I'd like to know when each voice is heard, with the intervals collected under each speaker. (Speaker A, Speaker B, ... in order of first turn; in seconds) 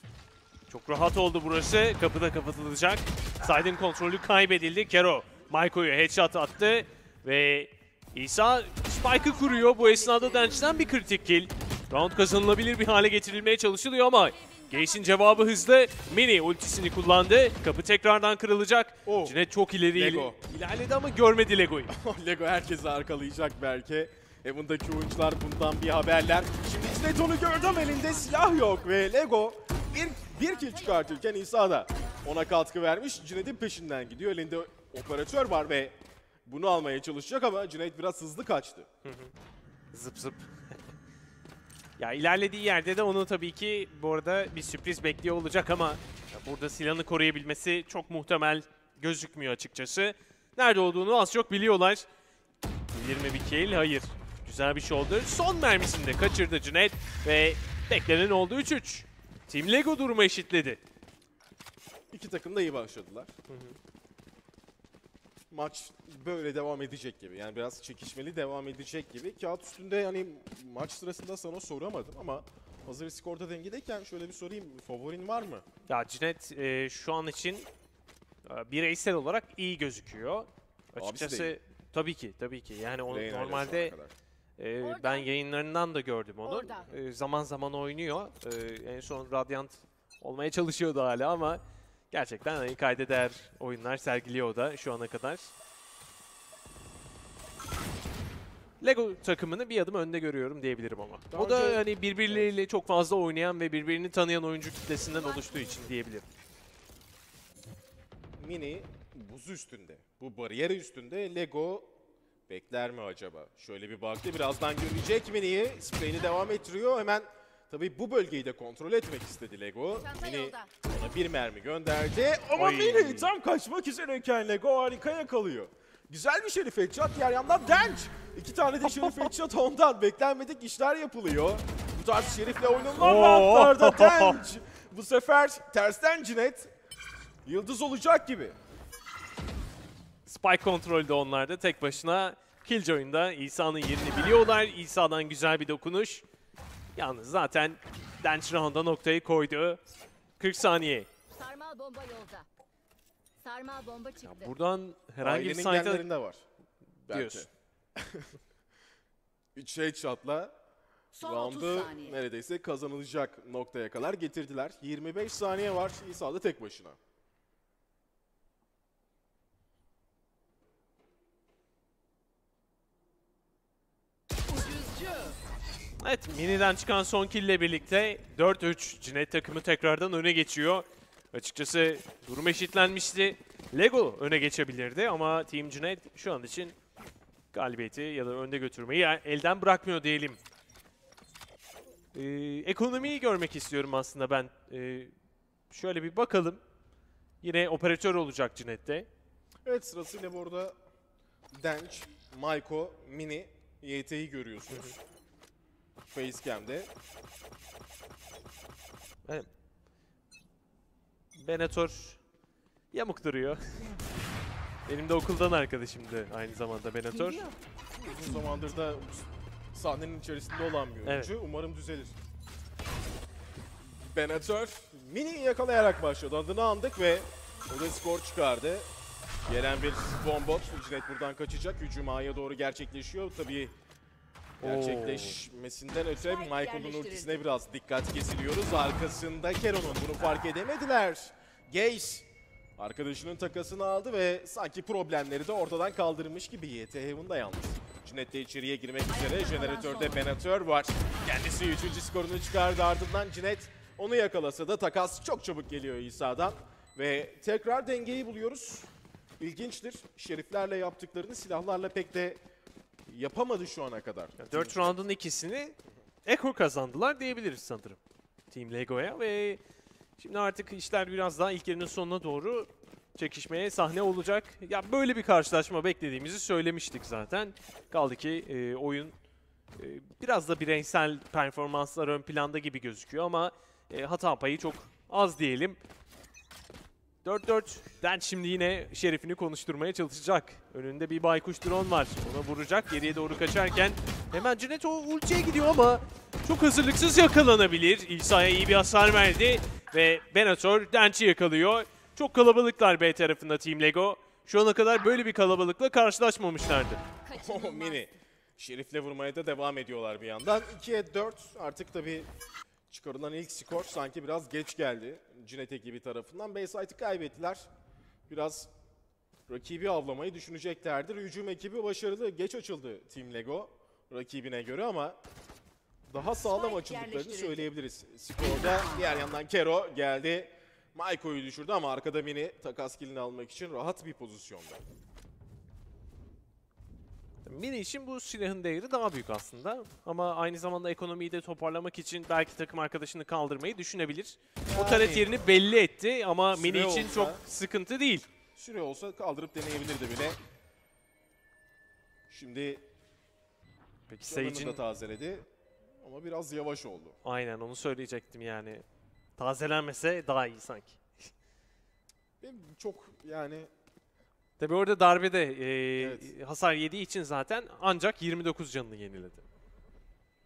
Speaker A: 0.7-21.9, 39.0-39.3, 39.9-40.7, 42.0-52.0, 52.9-60.8, 63.5-63.8, 75.9-77.7, 78.4-83.9, 84.6-95.5, 98.8-106.2, 122.5-123.3, 129.0-129.3, 133.0-134.4, 140.2-146.2, 147.0-149.8, 150.4-151.1, 154.2-156.0, 157.1-157.5, 176.0-186.8, 187.5-190.4, 192.1-195.1, 195.7-196.6, 197.4-199.1, 211.3-212.2, 212.9-213.9, 214.9-217.5, 221.0-221.3, 234.6-235.4, 264.4-268.0, 268.5-269.6, 270.2-279.1, 279.8-285.8, 287.2-307.0, 337.4-348.3, 354.1-354.8, 357.2-358.8, 359.4-361.3, 364.6-369.4
Speaker B: 9.0-10.9, 14.4-15.7, 27.5-28.8, 30.4-31.2, 84.8-85.3, 86.4-86.9, 105.0-105.9, 119.9-120.7, 132.1-133.2, 151.3-152.5, 153.4-154.5, 161.1-162.2, 174.5-175.4, 236.1-237.4, 249.1-250.3, 307.2-308.1, 326.4-327.7, 328.4-329.3
Speaker C: 19.0-19.4, 19.9-20.4, 21.9-38.9, 62.1-63.3, 65.5-75.6, 81.0-81.5, 83.1-84.1, 101.3-102.5, 108.4-111.9, 112.5-136.7, 137.4-138.6, 155.2-156.4, 157.1-158.3, 159.6-160.5, 161.2-167.0, 199.6-200.8, 201.5-205.0, 206.1-206.9, 218.0-222.1, 223.8-228.9, 229.5-233.8, 234.6-258.9, 259.4-262.4, 263.1-265.0, 307.3-312.3, 312.9-317.7, 318.3-318.7, 319.5-325.2, 326.1-334.8, 344.7-345.4, 346.5-347.4, 348.5-350.4, 352.3-352.9, 354.2-355.5, 356.0-357.2, 362.4-363.7, 366.0-366.3